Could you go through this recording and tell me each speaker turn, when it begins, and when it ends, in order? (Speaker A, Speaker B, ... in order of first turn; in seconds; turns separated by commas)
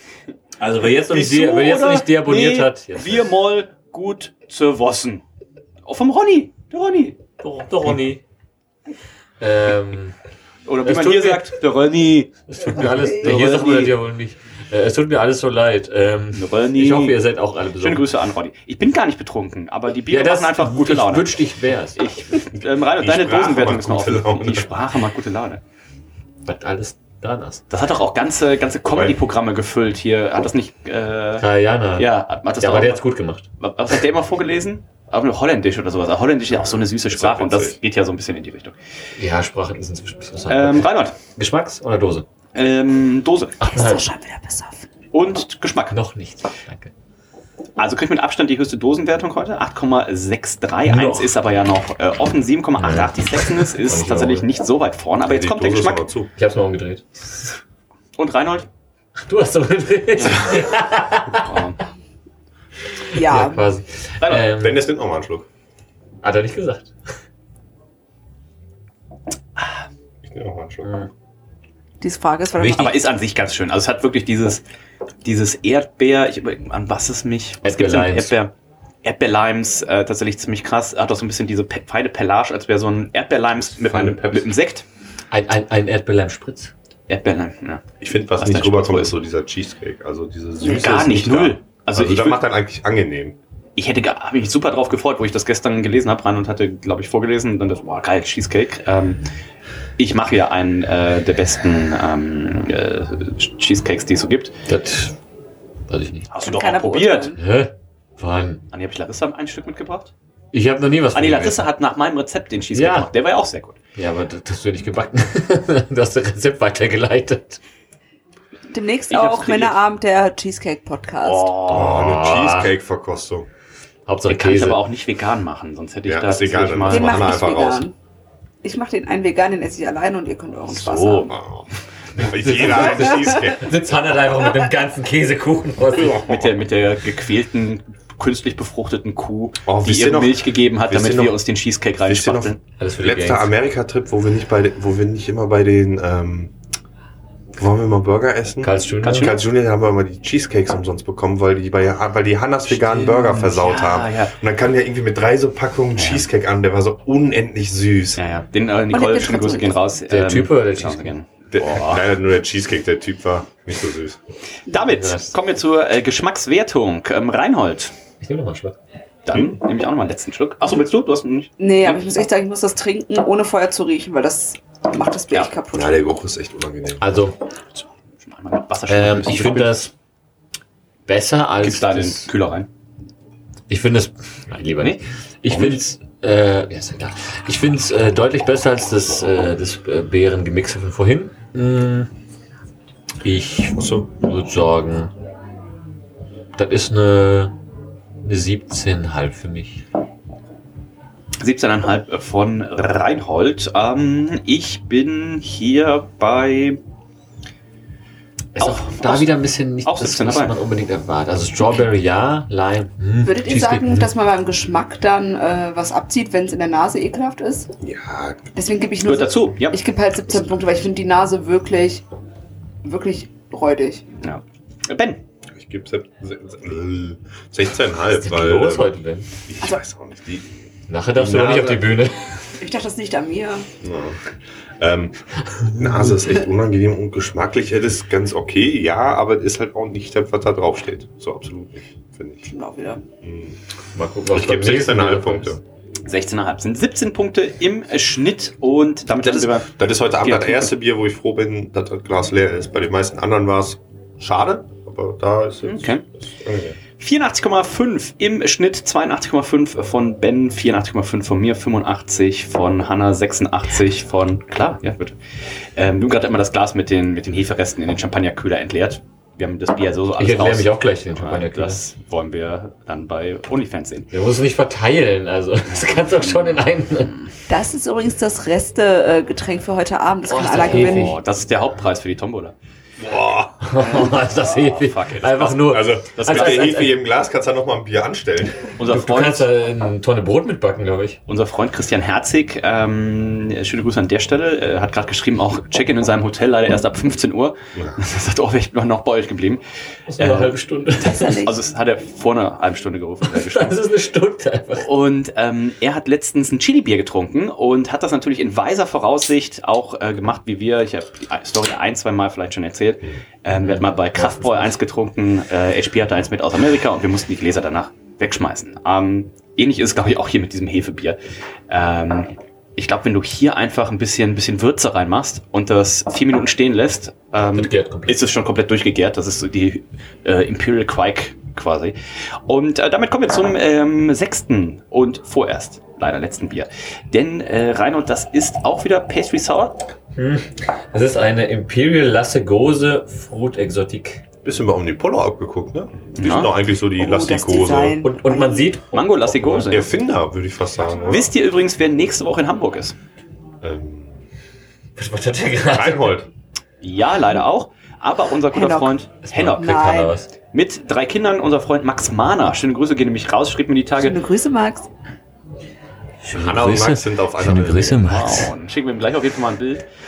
Speaker A: 0.6-3.3, Speaker B: 0.7-5.2, Speaker B: 5.8-7.2, Speaker A: 7.4-8.2, Speaker A: 9.4-10.1, Speaker B: 10.7-12.3, Speaker A: 10.8-11.5, Speaker A: 12.5-18.1, Speaker B: 13.1-13.9, Speaker B: 16.3-17.2, Speaker B: 17.8-21.4, Speaker A: 20.1-22.2, Speaker B: 21.9-25.6, Speaker C: 22.9-24.7, Speaker A: 26.4-27.6, Speaker B: 27.7-33.0, Speaker C: 28.9-29.2, Speaker A: 31.4-33.5, Speaker B: 33.6-38.7, Speaker C: 36.5-37.8, Speaker A: 39.2-42.2, Speaker B: 40.5-41.2, Speaker B: 42.5-43.6, Speaker A: 43.6-44.0, Speaker D: 43.6-44.9, Speaker B: 45.1-46.0, Speaker A: 45.9-46.9, Speaker B: 47.8-56.0, Speaker A: 50.8-51.3, Speaker A: 52.8-54.5, Speaker C: 55.2-56.3, Speaker A: 56.4-57.4, Speaker B: 58.2-58.7, Speaker A: 59.2-61.6, Speaker B: 61.4-61.8, Speaker D: 63.1-63.7, Speaker A: 63.1-64.8, Speaker C: 64.4-65.5, Speaker A: 66.2-66.9, Speaker C: 70.2-71.0, Speaker D: 72.0-73.0, Speaker A: 72.6-72.8, Speaker B: 72.7-74.6, Speaker B: 75.2-78.5, Speaker A: 77.6-78.3, Speaker B: 79.0-84.8, Speaker C: 83.7-84.5, Speaker A: 85.3-86.7, Speaker B: 87.1-89.1, Speaker C: 88.0-93.4, Speaker B: 90.6-92.4, Speaker B: 93.8-99.2, Speaker B: 100.0-104.5, Speaker A: 104.7-105.2, Speaker A: 105.9-106.3, Speaker B: 106.3-107.3, Speaker D: 106.4-107.4, Speaker A: 107.3-108.6, Speaker B: 108.7-110.1, Speaker A: 110.5-111.7, Speaker B: 111.1-113.8, Speaker A: 112.7-113.1, Speaker A: 113.9-117.6, Speaker D: 118.7-121.6, Speaker B: 119.1-119.8, Speaker B: 121.2-122.0, Speaker C: 121.7-123.5, Speaker A: 121.7-122.7, Speaker A: 124.1-124.8, Speaker B: 124.3-127.4, Speaker C: 126.0-127.8, Speaker D: 126.9-127.9, Speaker D: 128.6-131.3, Speaker C: 130.8-133.7, Speaker B: 130.9-131.2, Speaker A: 132.2-136.2, Speaker C: 135.9-136.5, Speaker B: 136.2-142.6, Speaker C: 139.7-141.4, Speaker C: 142.0-146.5, Speaker A: 142.8-143.5, Speaker C: 147.6-158.2, Speaker A: 148.6-149.3, Speaker B: 149.0-149.4, Speaker B: 152.7-154.3, Speaker B: 156.0-156.2, Speaker B: 158.2-162.0, Speaker D: 158.9-159.8, Speaker A: 160.1-161.1, Speaker C: 161.5-164.2, Speaker B: 164.7-167.9, Speaker A: 164.8-165.3, Speaker A: 168.2-168.8, Speaker B: 169.3-171.9, Speaker C: 169.3-169.6, Speaker D: 171.6-176.0, Speaker C: 175.7-177.1, Speaker A: 177.0-177.4, Speaker B: 177.8-179.9, Speaker A: 178.9-179.9, Speaker A: 181.1-182.3, Speaker B: 181.6-182.7, Speaker A: 183.7-192.1, Speaker B: 184.8-185.8, Speaker A: 193.2-195.1, Speaker C: 193.8-194.1, Speaker A: 196.5-197.5, Speaker A: 198.2-199.8, Speaker B: 201.4-206.8, Speaker A: 208.5-214.1, Speaker B: 208.6-210.6, Speaker D: 213.2-217.7, Speaker C: 217.8-218.4, Speaker D: 218.5-222.0, Speaker B: 219.0-219.8, Speaker D: 222.8-224.0, Speaker B: 224.2-225.2, Speaker C: 225.6-228.9, Speaker A: 228.1-229.3, Speaker C: 229.5-230.5, Speaker A: 230.9-232.3, Speaker C: 231.1-232.0, Speaker D: 232.6-233.7, Speaker C: 233.8-234.2, Speaker C: 234.8-242.5, Speaker D: 242.5-243.0, Speaker C: 243.2-243.6, Speaker A: 243.9-245.6, Speaker C: 244.3-245.6, Speaker B: 246.1-250.7, Speaker C: 249.2-256.8, Speaker B: 255.6-256.0, Speaker B: 257.0-265.1, Speaker B: 265.8-274.1, Speaker A: 270.2-271.8, Speaker A: 274.1-277.1, Speaker B: 275.7-276.5, Speaker D: 277.5-281.1, Speaker A: 280.3-281.1, Speaker B: 280.7-282.5, Speaker C: 283.0-283.7, Speaker A: 283.6-286.9, Speaker B: 283.8-286.8, Speaker C: 285.6-288.7, Speaker B: 288.8-289.5, Speaker A: 288.9-291.2, Speaker B: 291.3-299.6, Speaker A: 300.1-301.4, Speaker B: 300.2-303.8, Speaker D: 301.1-301.5, Speaker A: 303.2-304.9, Speaker B: 304.8-331.9, Speaker A: 313.5-314.8, Speaker A: 327.4-328.3, Speaker B: 332.5-339.8, Speaker A: 340.1-344.2, Speaker C: 344.4-348.0, Speaker B: 346.2-346.5, Speaker D: 347.0-348.6, Speaker A: 348.0-349.7, Speaker B: 348.9-349.9, Speaker C: 349.7-351.3, Speaker B: 351.1-352.9, Speaker C: 353.6-354.2, Speaker A: 354.9-356.2, Speaker C: 355.7-356.3, Speaker B: 356.8-359.7, Speaker D: 358.5-358.9, Speaker A: 359.2-360.3, Speaker D: 359.5-360.1, Speaker B: 360.5-364.2, Speaker D: 364.0-364.9, Speaker A: 366.2-368.5, Speaker C: 366.3-368.1, Speaker B: 368.0-369.8